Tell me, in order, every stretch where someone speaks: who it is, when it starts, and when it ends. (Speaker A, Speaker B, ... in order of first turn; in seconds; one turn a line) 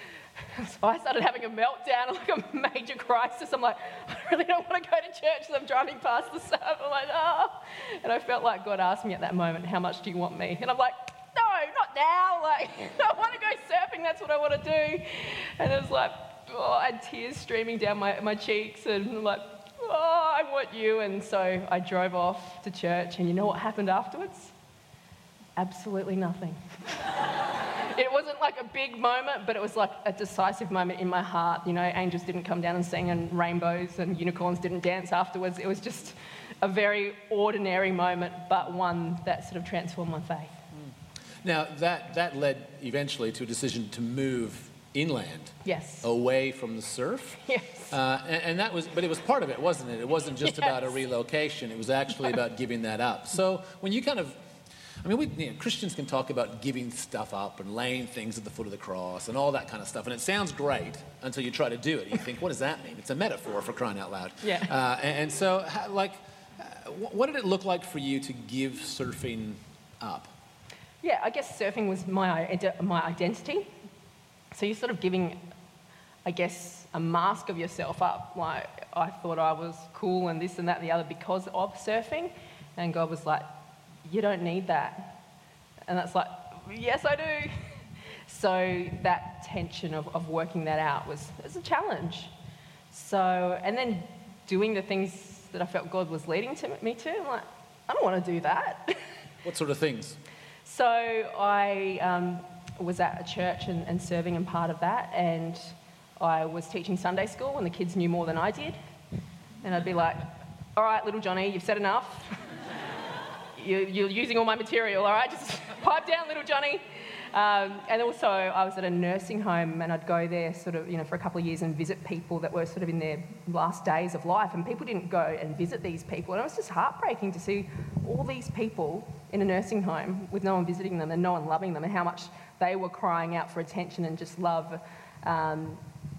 Speaker A: 0.4-24.5
Speaker A: 25.6-40.6
Speaker B: 41.4-54.4
Speaker A: 45.6-46.0
Speaker A: 47.5-47.9
Speaker A: 50.4-50.9
Speaker B: 55.0-70.3
Speaker A: 64.4-64.7
Speaker A: 71.0-73.7
Speaker A: 74.5-75.4
Speaker A: 76.2-83.5
Speaker A: 84.0-85.2
Speaker A: 85.9-87.5
Speaker A: 88.3-92.3
Speaker A: 92.9-99.1
Speaker B: 99.4-100.2
Speaker A: 100.7-108.8
Speaker A: 109.6-112.4
Speaker A: 113.6-135.8